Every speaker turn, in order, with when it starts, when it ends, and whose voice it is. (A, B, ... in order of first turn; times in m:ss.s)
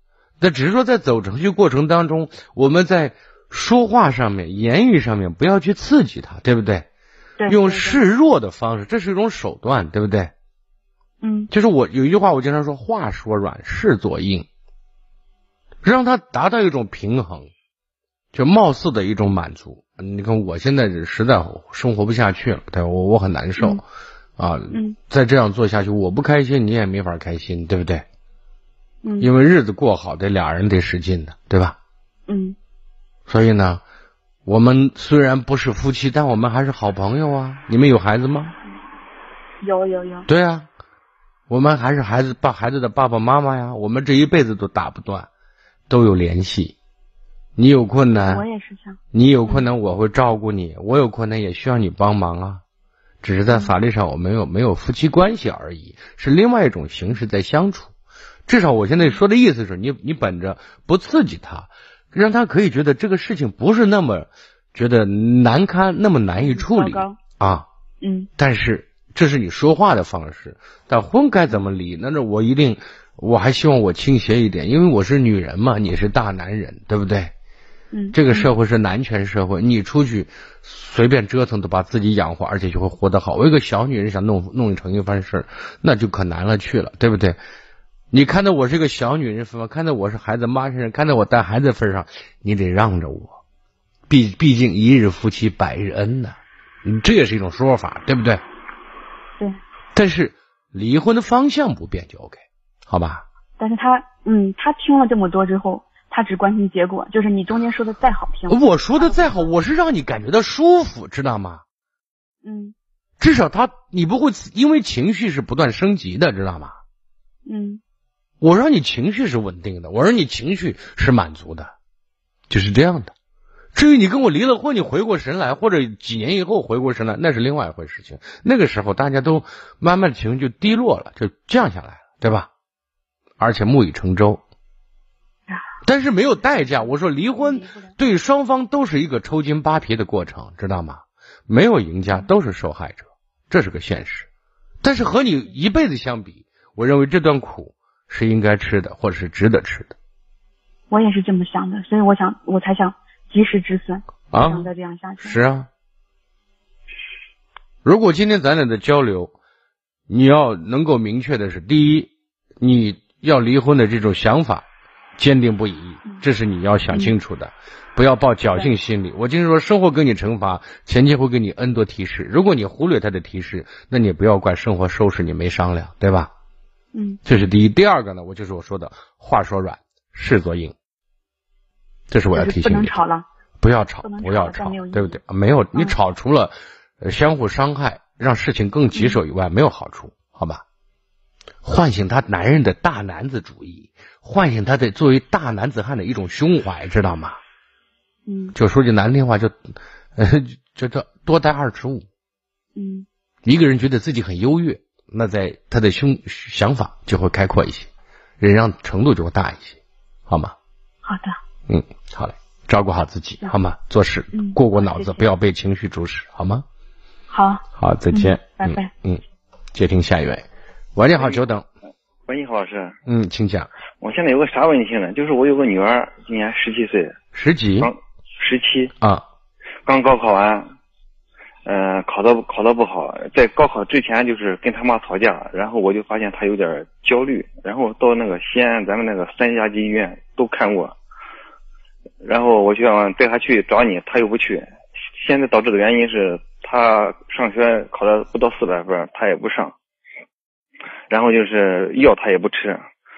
0:00.4-0:06.9 A
0:07.4-0:08.0 B
0:07.5-0:10.3 A
0:11.2-0:11.5 B
0:11.5-0:14.5 A
0:15.8-0:17.5 A
0:18.3-0:23.8 A
0:24.4-0:28.0 A
0:24.7-0:25.0 B
0:29.0-0:29.3 B
0:29.2-0:31.8 A
0:32.3-0:32.6 B
0:33.3-0:33.8 A
0:34.5-0:38.6 A
0:39.6-0:40.3 B
0:40.3-0:40.7 A
0:41.5-0:45.3 A
0:45.9-0:46.8 A
0:47.6-0:48.4 A
0:48.1-0:49.7 B
0:49.1-0:52.6 A
0:53.2-0:57.9 A
0:53.5-0:53.7 B
0:58.5-1:07.7 A
1:06.4-1:07.2 B
1:08.0-1:08.3 B
1:08.4-1:17.3 A
1:17.9-1:18.5 B
1:18.1-1:27.4 A
1:28.1-1:33.4 A
1:34.1-1:38.4 A
1:40.0-1:43.2 A
1:43.6-1:49.5 B
1:48.5-1:51.6 A
1:52.4-1:52.7 B
1:53.2-1:56.8 A
1:57.5-1:57.8 B
1:58.4-2:01.7 A
2:02.5-2:03.1 A
2:03.7-2:12.5 A
2:13.4-2:14.4 A
2:15.8-2:24.3 A
2:16.8-2:17.9 B
2:24.8-2:30.0 A
2:30.9-2:35.4 B
2:34.3-2:34.7 A
2:35.2-2:35.7 A
2:37.8-2:39.3 A
2:40.1-2:44.6 A
2:45.2-2:56.3 A
2:46.9-2:47.2 B
2:56.9-2:57.2 B
2:57.2-3:00.8 A
3:02.1-3:03.0 A
3:02.3-3:03.3 B
3:03.6-3:10.6 A
3:04.0-3:05.2 B
3:08.9-3:09.2 B
3:11.6-3:17.4 A
3:18.3-3:18.6 B
3:18.6-3:22.1 A
3:22.8-3:23.1 B
3:23.4-3:27.9 A
3:28.4-3:30.6 A
3:31.0-3:31.4 B
3:31.7-3:36.6 A
3:34.3-3:35.2 B
3:37.3-3:38.9 B
3:37.8-3:39.2 A
3:39.7-3:41.7 A
3:41.2-3:41.4 C
3:42.3-3:43.0 C
3:43.1-3:43.7 A
3:44.0-3:47.2 C
3:47.3-3:47.9 A
3:47.8-3:48.9 C
3:49.9-3:50.7 C
3:51.7-4:01.0 C
4:02.2-4:04.7 C
4:05.2-4:09.7 C
4:11.1-4:12.8 C